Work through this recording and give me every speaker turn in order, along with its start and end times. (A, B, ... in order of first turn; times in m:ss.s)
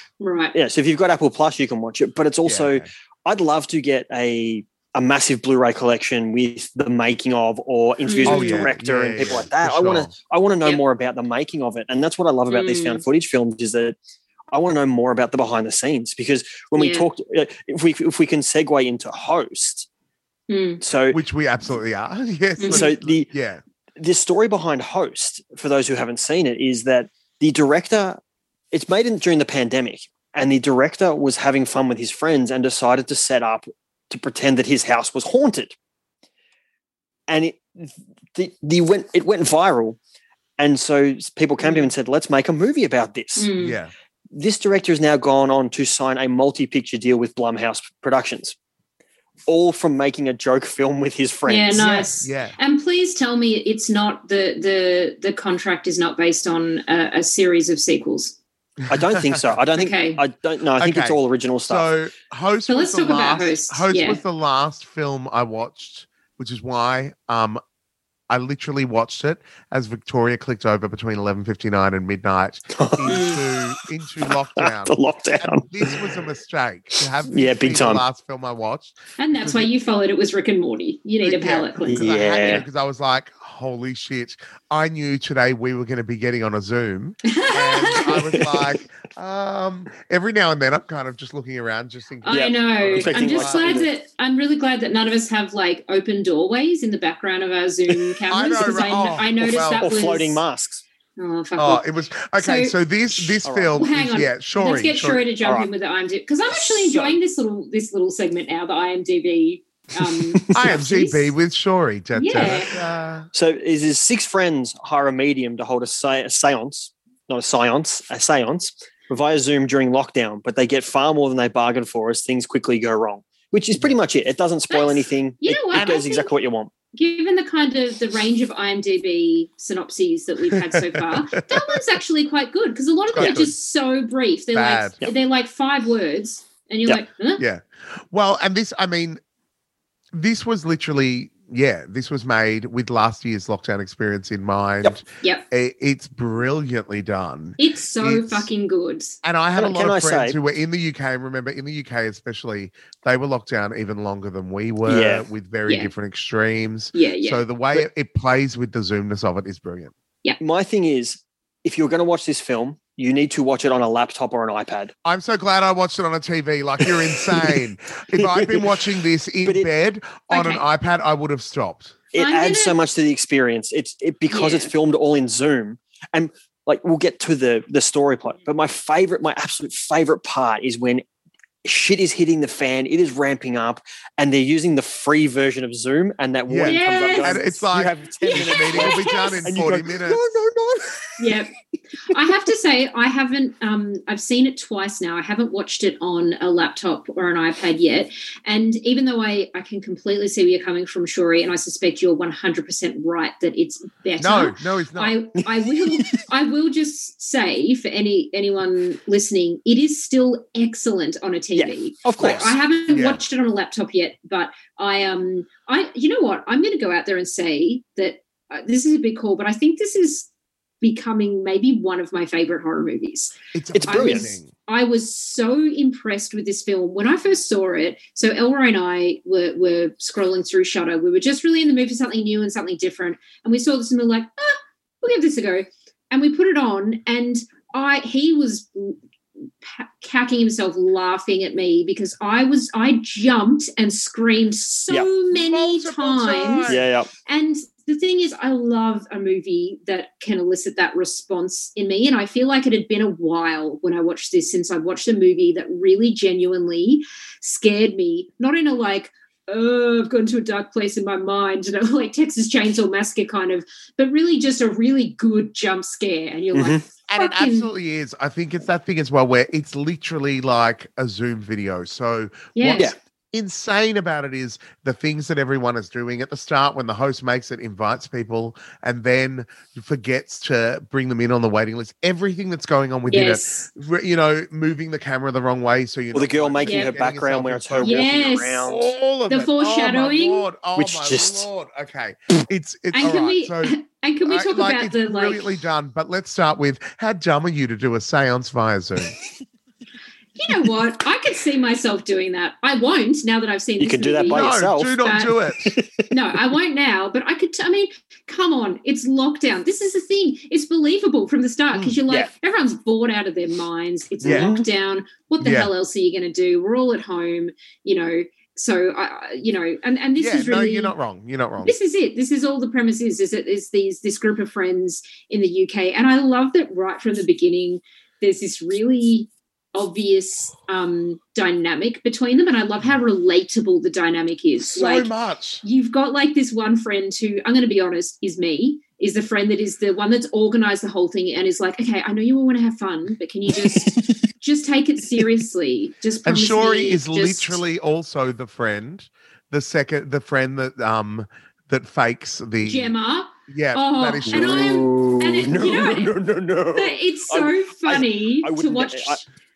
0:00.2-0:00.5 A
0:00.5-0:14.0 B
0:02.4-0:02.9 C
0:08.0-0:08.7 A
0:08.2-0:10.1 C
0:12.5-0:13.0 A
0:14.5-0:19.9 B
0:16.8-0:17.1 A
0:20.5-0:20.8 A
0:20.8-0:21.2 B
0:21.1-0:23.6 C
0:22.6-0:22.9 A
0:22.7-0:23.3 B
0:24.0-0:28.2 B
0:28.7-0:35.8 B
0:37.3-0:40.0 B
0:40.6-0:43.5 B
0:41.6-0:41.9 A
0:43.4-0:43.8 A
0:43.6-0:43.9 C
0:44.3-0:48.6 B
0:49.5-0:51.9 B
0:51.5-0:58.4 A
0:51.7-0:52.6 C
0:58.8-0:59.4 C
0:58.9-1:01.9 B
0:59.7-1:00.2 A
1:00.8-1:07.6 C
1:02.7-1:04.2 A
1:08.3-1:19.6 C
1:12.7-1:13.4 B
1:13.1-1:13.4 A
1:14.6-1:16.1 B
1:17.2-1:18.0 B
1:19.2-1:22.6 A
1:21.2-1:33.8 C
1:21.9-1:22.6 B
1:27.2-1:28.4 A
1:32.2-1:40.4 A
1:32.3-1:33.9 B
1:38.3-1:39.9 C
1:39.8-1:40.8 B
1:41.2-1:41.8 A
1:41.6-1:45.2 C
1:42.4-1:43.2 A
1:43.4-1:43.8 B
1:43.7-1:51.3 A
1:45.4-1:45.7 B
1:46.5-1:47.2 B
1:50.0-1:50.7 B
1:50.5-1:53.3 C
1:52.1-1:52.7 A
1:52.3-1:52.6 B
1:53.3-2:06.7 B
2:04.7-2:06.3 A
2:05.7-2:06.0 C
2:06.9-2:17.4 A
2:10.5-2:11.8 C
2:13.1-2:13.5 C
2:13.2-2:13.4 B
2:14.5-2:15.0 C
2:17.4-2:19.2 C
2:20.1-2:28.5 C
2:27.6-2:29.2 A
2:29.2-2:39.9 C
2:29.5-2:30.4 B
2:34.8-2:35.2 B
2:36.9-2:37.4 A
2:40.4-2:44.9 B
2:45.0-2:52.0 C
2:46.8-2:47.6 B
2:48.2-2:48.8 B
2:49.4-2:49.7 B
2:50.3-2:50.6 A
2:52.1-3:01.0 B
2:52.2-2:52.7 A
2:54.3-2:54.7 A
3:01.6-3:11.4 B
3:06.5-3:10.2 C
3:06.6-3:07.4 A
3:08.2-3:09.4 A
3:11.2-3:11.5 A
3:12.1-3:40.3 A
3:24.2-3:25.2 C
3:25.9-3:26.2 B
3:31.6-3:32.6 B
3:32.2-3:33.2 C
3:40.8-3:43.3 A
3:43.5-3:44.5 C
3:43.7-3:44.3 B
3:43.9-3:59.0 A
3:59.6-4:27.7 A
4:05.3-4:06.8 C
4:06.7-4:07.1 B
4:26.5-4:26.8 B
4:27.1-4:59.2 C
4:32.6-4:32.9 A
4:43.1-4:43.6 A
4:46.1-4:48.8 B
4:46.6-4:46.9 A
4:47.8-4:48.7 A
4:49.3-4:50.5 A
4:50.8-4:51.5 B
4:52.9-4:55.4 A
5:00.4-5:04.5 A
5:03.8-5:05.0 B
5:04.3-5:05.8 C
5:05.0-5:05.3 A
5:05.6-5:06.1 B
5:06.1-5:20.9 A
5:14.2-5:14.6 B
5:14.2-5:14.5 C
5:15.4-5:15.7 C
5:20.2-5:21.8 C
5:21.6-5:35.1 A
5:34.7-5:35.6 C
5:35.6-5:47.6 A
5:43.6-5:44.1 B
5:46.2-5:52.9 C
5:52.6-5:56.1 A
5:53.5-5:54.8 C
5:54.2-5:59.2 B
5:56.7-5:59.2 A